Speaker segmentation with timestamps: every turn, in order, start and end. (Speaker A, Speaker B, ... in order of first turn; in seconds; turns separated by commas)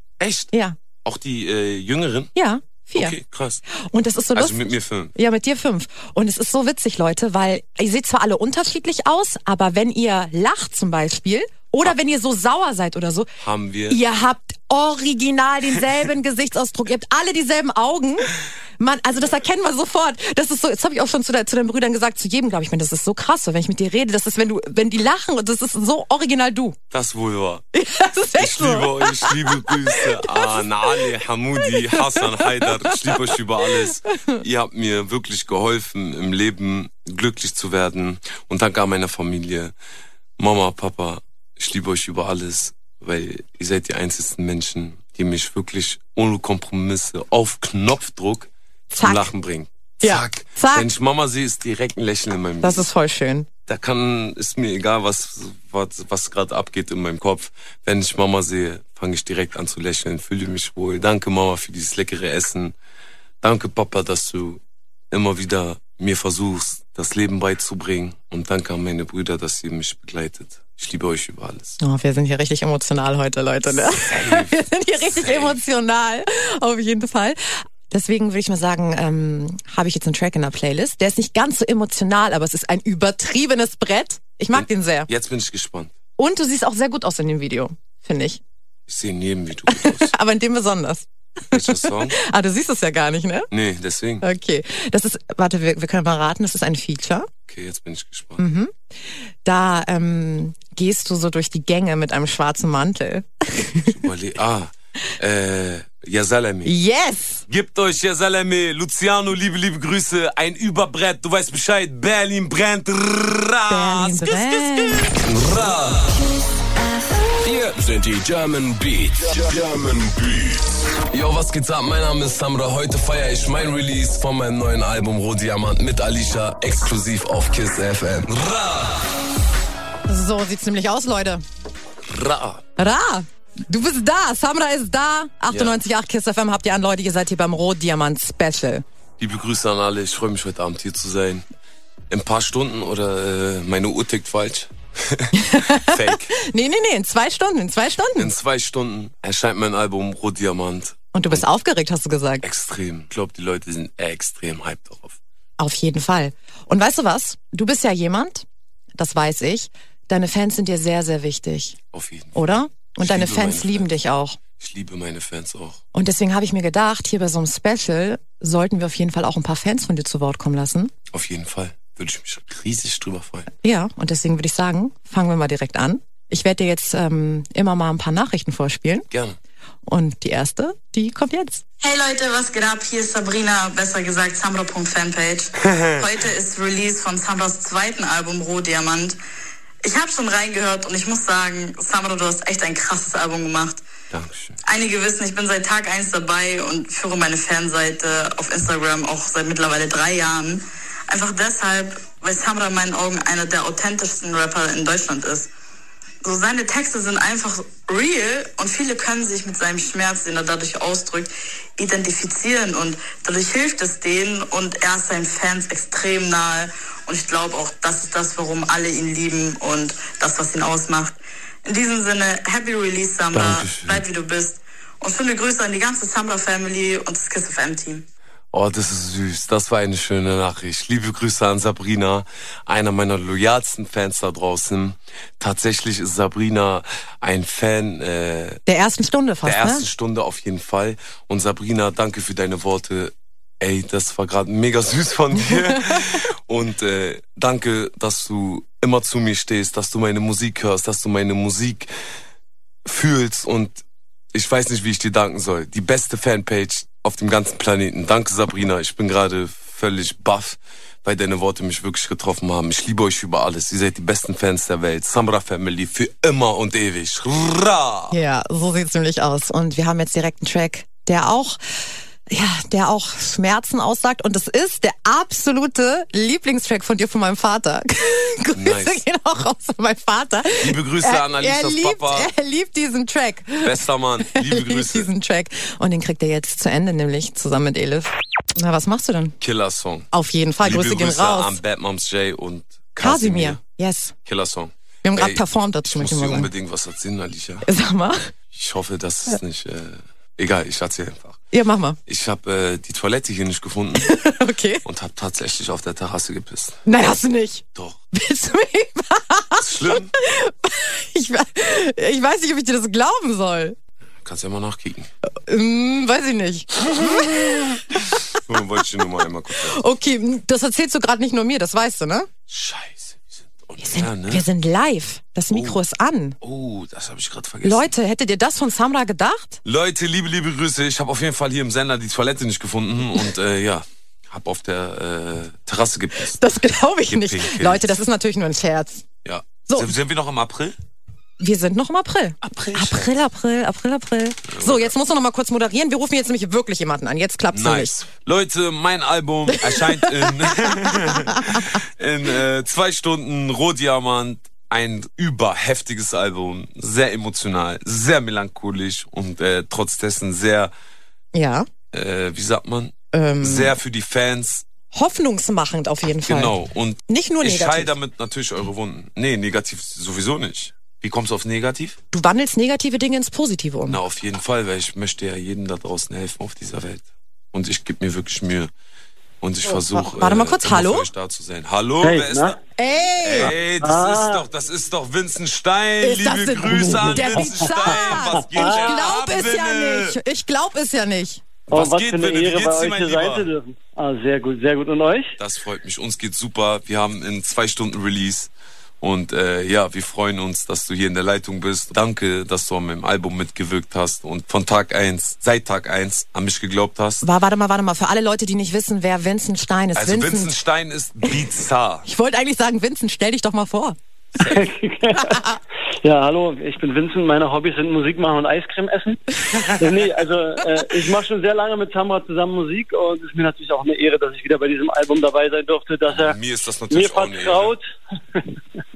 Speaker A: 0.2-0.5, Speaker A: 1.0-2.3, Speaker B: 2.3-3.1, Speaker A: 2.9-3.6, Speaker B: 3.7-13.3, Speaker A: 4.3-5.1, Speaker A: 13.4-14.0, Speaker B: 13.9-26.8, Speaker A: 26.9-27.6, Speaker B: 27.7-31.0, Speaker A: 28.4-39.7, Speaker B: 31.6-33.3, Speaker A: 40.4-52.9, Speaker B: 48.9-49.3, Speaker B: 50.0-50.9, Speaker B: 52.6-53.5, Speaker A: 53.7-62.7, Speaker A: 63.4-71.8, Speaker B: 71.8-85.1, Speaker A: 73.7-75.6, Speaker A: 84.5-85.9, Speaker B: 86.2-88.4, Speaker A: 88.9-90.1, Speaker B: 89.7-93.5, Speaker A: 91.5-92.2, Speaker A: 93.5-94.2, Speaker B: 94.2-97.3, Speaker A: 97.5-98.4, Speaker B: 98.4-98.7, Speaker B: 99.4-104.0, Speaker A: 103.9-106.7, Speaker B: 106.6-107.4, Speaker A: 107.5-116.2, Speaker B: 113.7-115.2, Speaker C: 117.4-120.8, Speaker A: 121.1-129.2, Speaker B: 130.1-131.4, Speaker A: 132.0-132.6, Speaker B: 132.8-138.8, Speaker A: 135.5-135.8, Speaker A: 139.2-141.4, Speaker A: 142.1-146.3, Speaker B: 145.3-148.3, Speaker A: 148.2-151.4, Speaker B: 151.1-152.4, Speaker A: 152.4-155.2, Speaker B: 155.6-158.4, Speaker B: 159.0-161.8, Speaker A: 161.9-163.9, Speaker B: 162.3-164.4, Speaker A: 164.6-165.8, Speaker B: 165.9-170.9, Speaker A: 171.1-173.5, Speaker B: 173.6-179.1, Speaker A: 179.1-179.3, Speaker B: 179.8-181.6, Speaker D: 181.8-189.2, Speaker A: 185.6-186.1, Speaker D: 189.8-193.8, Speaker A: 194.1-194.6, Speaker D: 194.7-205.5, Speaker D: 206.2-228.0, Speaker A: 223.3-224.0, Speaker A: 228.5-238.6, Speaker B: 238.7-239.8, Speaker A: 239.4-251.9, Speaker A: 252.8-268.1, Speaker B: 268.1-289.4, Speaker A: 278.5-279.0, Speaker A: 280.6-282.3, Speaker A: 283.6-285.1, Speaker A: 289.4-290.1, Speaker B: 290.1-291.6, Speaker A: 290.6-293.6, Speaker B: 293.0-294.1, Speaker A: 294.2-297.7, Speaker B: 295.0-296.5, Speaker B: 297.6-298.3, Speaker A: 298.5-301.4, Speaker B: 301.5-302.0, Speaker A: 302.1-304.1, Speaker B: 304.0-304.8, Speaker A: 304.8-306.8, Speaker B: 306.9-313.8, Speaker A: 307.7-308.0, Speaker A: 309.6-310.1, Speaker A: 314.2-315.1, Speaker B: 315.4-317.8, Speaker A: 316.9-319.8, Speaker B: 319.7-322.3, Speaker A: 322.5-324.4, Speaker B: 323.8-326.4, Speaker A: 325.5-325.8, Speaker A: 326.4-327.9, Speaker B: 327.6-329.6, Speaker A: 329.6-336.4, Speaker B: 336.3-339.0, Speaker A: 337.1-338.0, Speaker A: 339.2-340.8, Speaker B: 341.4-347.9, Speaker A: 342.4-343.1, Speaker A: 344.5-344.9, Speaker A: 347.5-360.7, Speaker B: 349.6-351.6, Speaker B: 361.3-361.7, Speaker A: 361.9-364.7, Speaker B: 363.1-363.7, Speaker B: 364.9-366.5, Speaker A: 366.2-372.0, Speaker B: 367.1-367.9, Speaker B: 372.1-374.0, Speaker A: 373.8-378.7, Speaker A: 379.4-382.6, Speaker B: 379.7-381.1, Speaker E: 382.0-382.6, Speaker B: 382.8-383.6, Speaker A: 383.2-390.2, Speaker E: 383.8-384.4, Speaker B: 386.0-391.4, Speaker E: 386.8-387.9, Speaker E: 388.4-388.9, Speaker E: 391.7-395.3, Speaker A: 391.7-393.5, Speaker A: 395.4-407.2, Speaker B: 407.2-410.5, Speaker A: 409.9-412.1, Speaker B: 412.1-413.9, Speaker E: 414.4-415.4, Speaker B: 415.2-415.6, Speaker E: 416.0-426.4, Speaker A: 426.1-427.8, Speaker E: 426.9-428.6